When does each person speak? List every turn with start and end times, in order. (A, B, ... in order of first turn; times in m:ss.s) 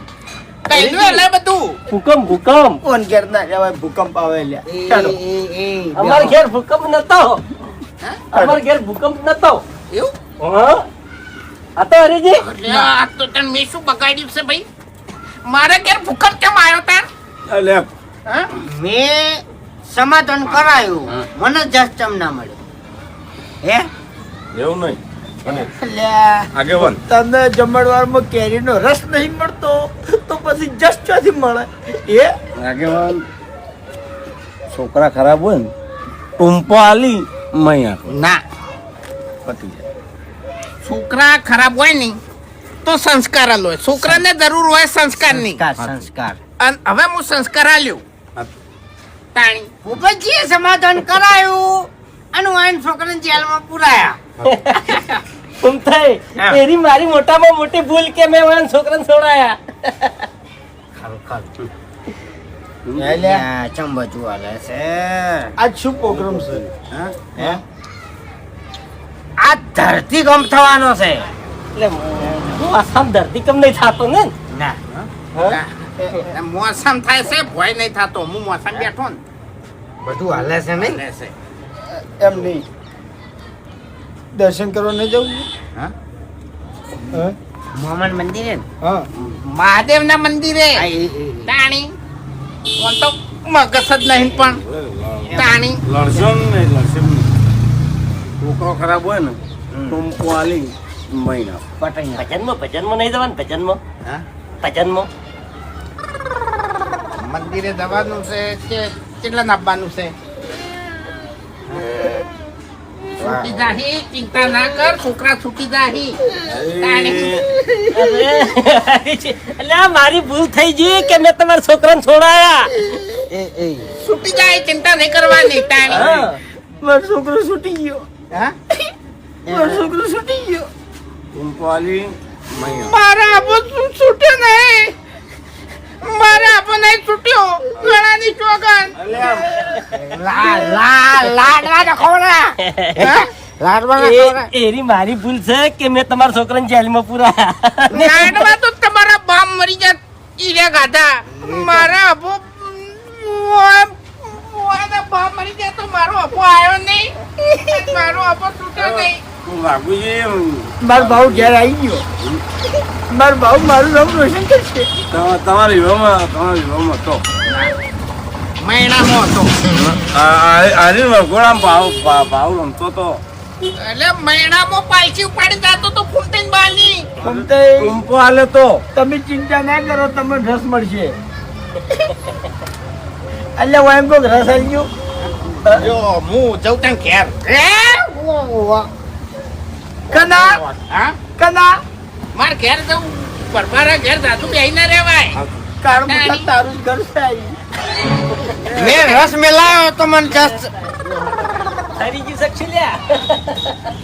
0:00.7-0:01.8 A
0:00.7-0:01.2 B
0:01.9-0:02.8 B
0:02.8-0:05.2 C
0:04.7-0:06.4 D
0:06.0-0:07.4 B
0:08.3-0:09.6 B
0:08.3-0:08.6 C
0:10.4-0:10.8 B
0:11.8-0:12.4 B
0:12.4-0:14.6 A
0:15.5-0:17.1 A
0:17.5-0:17.9 E
0:18.5-0:22.6 D
0:23.6-0:23.9 D
0:24.5-0:25.7 E
0:25.6-0:32.3 C
0:26.6-0:27.0 E
0:32.6-0:33.2 E
0:34.7-0:35.7 E
0:36.4-0:38.2 E
0:38.1-0:38.4 D
0:39.5-0:39.8 E
0:40.8-0:42.2 A
0:42.8-0:45.6 A
0:45.3-0:46.4 D
0:45.8-0:46.1 E
0:46.6-0:48.0 A
0:49.3-0:49.7 A
0:49.8-0:54.2 D
0:54.4-1:00.2 B
0:56.4-0:56.6 D
1:01.0-1:01.5 D
1:02.9-1:03.2 E
1:03.0-1:05.5 D
1:03.0-1:03.4 C
1:05.6-1:06.7 C
1:06.1-1:06.7 E
1:06.9-1:07.6 D
1:09.4-1:11.3 D
1:11.8-1:14.3 B
1:14.5-1:15.1 D
1:15.4-1:19.2 A
1:16.0-1:16.3 C
1:20.0-1:21.3 D
1:22.0-1:22.6 C
1:24.4-1:25.5 C
1:27.7-1:28.7 D
1:28.8-1:29.1 C
1:29.4-1:30.8 A
1:30.8-1:31.5 D
1:31.5-1:31.9 A
1:32.8-1:34.6 A
1:34.7-1:37.3 E
1:35.4-1:35.8 A
1:38.4-1:41.6 E
1:39.7-1:40.0 D
1:41.8-1:42.3 D
1:42.2-1:43.8 B
1:44.6-1:45.1 B
1:47.3-1:50.2 A
1:53.2-1:56.2 A
1:53.2-1:53.5 E
1:56.5-1:57.4 E
1:56.8-1:57.3 A
1:57.9-2:02.7 B
2:03.3-2:03.9 D
2:04.0-2:06.1 A
2:05.9-2:06.4 B
2:05.9-2:06.2 D
2:06.8-2:08.1 C
2:08.3-2:08.6 D
2:09.5-2:09.9 D
2:09.5-2:10.7 C
2:11.3-2:13.0 E
2:12.7-2:15.0 A
2:16.0-2:19.0 A
2:19.0-2:19.3 E
2:19.3-2:19.6 C
2:19.9-2:24.5 D
2:22.6-2:23.0 B
2:24.0-2:28.3 B
2:27.9-2:39.2 A
2:27.9-2:28.4 D
2:31.3-2:31.9 D
2:39.4-2:41.6 E
2:40.8-2:42.0 C
2:43.1-2:44.9 C
2:45.1-2:47.2 E
2:48.6-2:49.6 A
2:49.8-2:53.2 E
2:53.8-2:57.1 A
2:57.2-2:58.0 C
2:57.2-2:58.8 E
2:59.0-3:01.1 C
3:03.6-3:04.9 C
3:05.6-3:05.9 C
3:05.8-3:07.7 A
3:07.6-3:08.9 D
3:10.1-3:10.6 C
3:10.4-3:11.2 A
3:11.4-3:11.8 C
3:12.3-3:15.4 A
3:15.8-3:17.6 C
3:16.1-3:16.5 A
3:18.7-3:20.7 D
3:18.8-3:19.2 B
3:22.0-3:23.7 B